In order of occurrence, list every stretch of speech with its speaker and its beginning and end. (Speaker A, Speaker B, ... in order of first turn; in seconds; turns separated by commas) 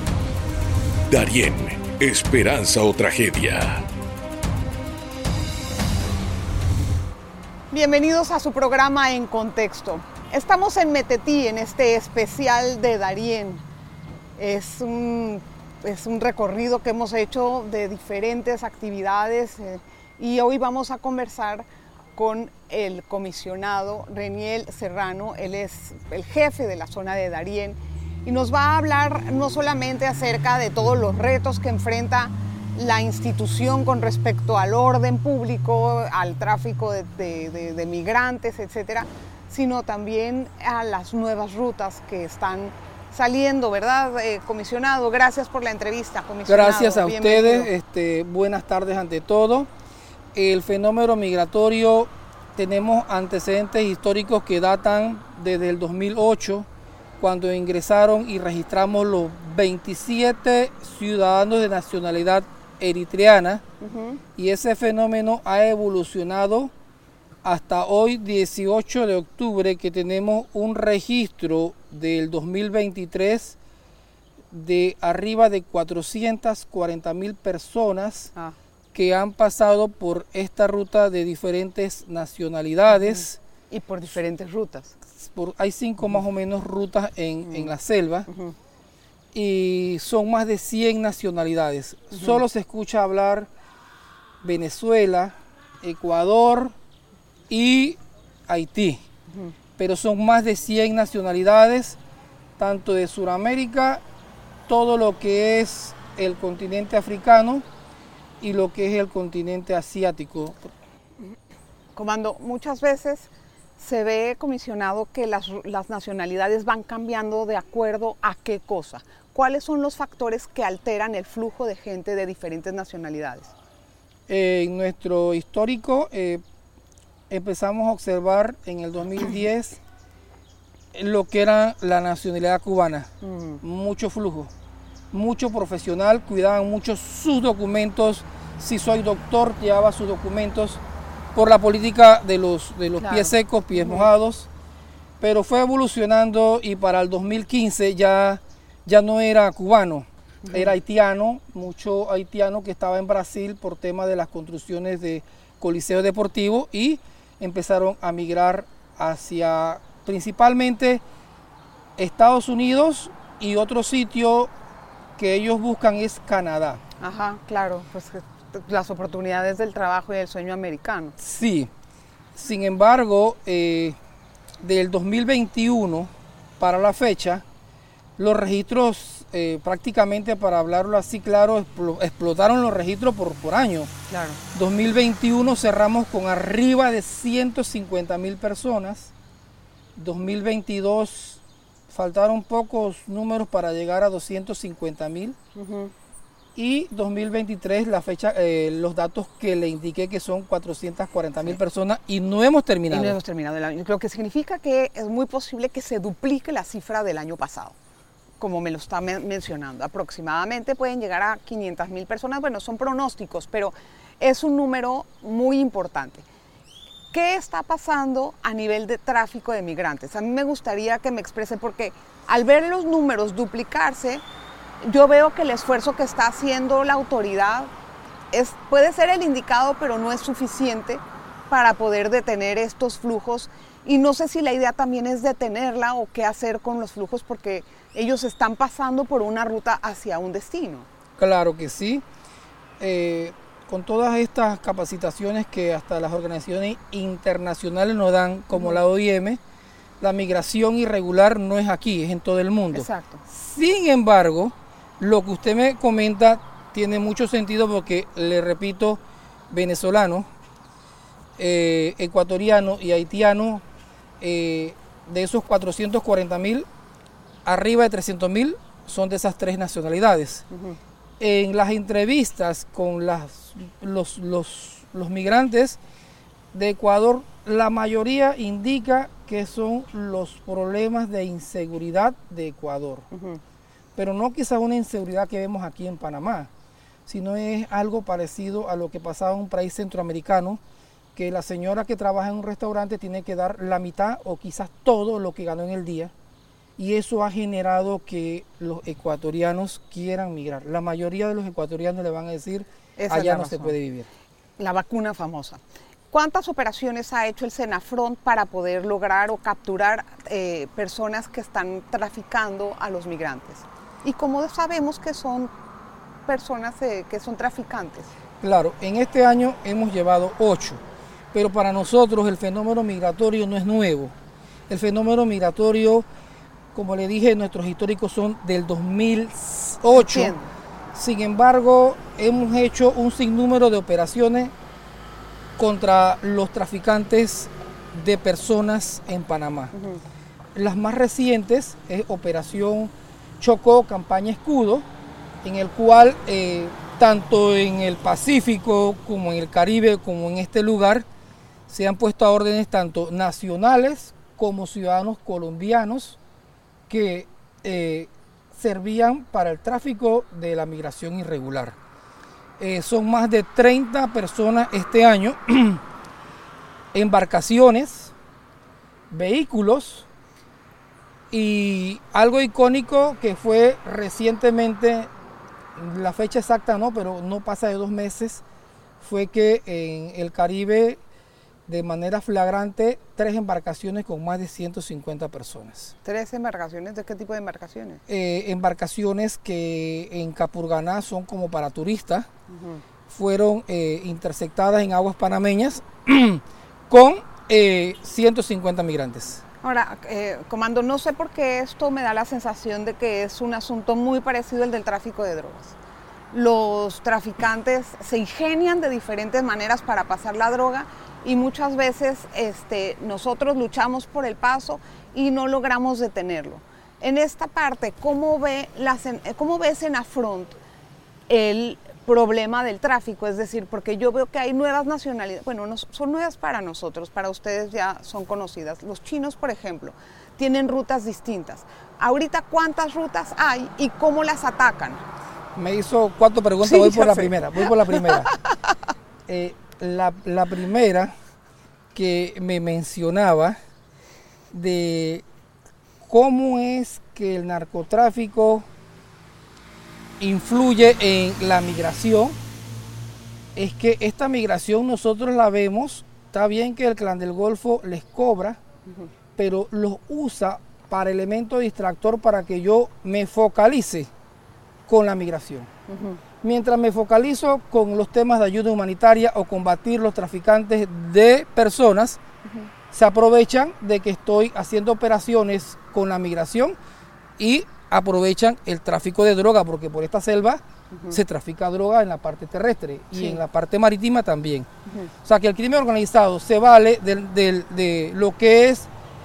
Speaker A: 1.1-3.9, Speaker B: 7.7-13.6, Speaker B: 14.4-47.7, Speaker C: 46.5-49.7, Speaker C: 50.3-56.7, Speaker C: 57.2-63.6, Speaker B: 63.8-64.2, Speaker C: 64.4-66.7, Speaker C: 67.4-73.6, Speaker C: 74.5-78.3, Speaker C: 78.9-83.4, Speaker B: 82.9-85.0, Speaker C: 85.2-88.3, Speaker B: 87.4-87.7, Speaker B: 88.3-88.5, Speaker C: 89.3-93.5, Speaker B: 92.1-92.4, Speaker C: 94.4-96.8, Speaker C: 97.5-99.0, Speaker C: 99.8-102.0, Speaker C: 102.6-104.0, Speaker C: 104.7-107.7, Speaker C: 108.4-110.7, Speaker B: 112.0-123.5, Speaker C: 124.3-126.4, Speaker C: 127.3-129.8, Speaker C: 130.9-133.1, Speaker B: 133.2-133.6, Speaker C: 133.6-134.5, Speaker C: 135.1-140.8, Speaker C: 141.3-144.5, Speaker B: 143.0-144.1, Speaker C: 145.2-161.0, Speaker B: 150.4-150.8, Speaker C: 162.0-164.5, Speaker C: 165.2-166.8, Speaker B: 167.0-171.2, Speaker C: 171.2-171.7, Speaker C: 172.3-174.0, Speaker C: 174.6-177.4, Speaker C: 178.2-183.9, Speaker B: 184.1-184.4, Speaker C: 184.5-189.1, Speaker C: 190.0-195.4, Speaker B: 195.6-195.9, Speaker C: 196.6-203.2, Speaker B: 202.9-207.8, Speaker B: 208.4-216.3, Speaker B: 217.1-224.2, Speaker B: 224.8-227.7, Speaker B: 228.3-240.9, Speaker C: 241.2-242.0, Speaker C: 242.8-249.4, Speaker B: 248.5-248.8, Speaker C: 250.0-260.3, Speaker B: 252.7-253.2, Speaker C: 261.4-263.6, Speaker C: 264.2-266.7, Speaker C: 267.4-270.5, Speaker B: 270.5-270.8, Speaker C: 271.2-275.8, Speaker C: 276.5-283.1, Speaker B: 283.1-283.4, Speaker C: 284.0-286.5, Speaker C: 287.1-290.6, Speaker C: 291.1-296.1, Speaker C: 296.8-304.1, Speaker B: 303.0-303.8, Speaker B: 304.6-315.5, Speaker B: 316.3-318.1, Speaker C: 318.4-320.8, Speaker C: 321.3-324.1, Speaker C: 324.7-326.1, Speaker C: 326.7-330.4, Speaker B: 329.9-330.5, Speaker C: 330.9-334.5, Speaker C: 335.6-339.7, Speaker B: 339.7-340.0, Speaker C: 340.6-344.9, Speaker C: 345.4-351.1, Speaker C: 351.7-356.2, Speaker C: 356.9-361.8, Speaker C: 362.6-365.8, Speaker C: 366.9-368.1, Speaker C: 369.1-370.1, Speaker C: 371.3-375.1, Speaker C: 375.8-378.4, Speaker C: 379.0-381.0, Speaker C: 381.7-385.9, Speaker B: 386.0-388.0, Speaker C: 388.1-392.3, Speaker B: 392.5-392.8, Speaker C: 393.1-399.4, Speaker B: 399.6-405.8, Speaker B: 406.3-420.6, Speaker B: 421.3-435.0, Speaker C: 435.6-438.3, Speaker B: 436.6-438.8, Speaker C: 439.3-441.1, Speaker C: 441.9-443.6, Speaker C: 444.5-445.2, Speaker C: 446.0-448.7, Speaker C: 450.2-452.4, Speaker C: 453.6-458.6, Speaker C: 459.4-464.1, Speaker C: 464.9-465.7, Speaker B: 465.9-466.2, Speaker C: 466.4-472.2, Speaker C: 472.9-476.8, Speaker C: 477.4-484.7, Speaker B: 480.9-481.2, Speaker B: 483.1-483.4, Speaker C: 485.2-488.9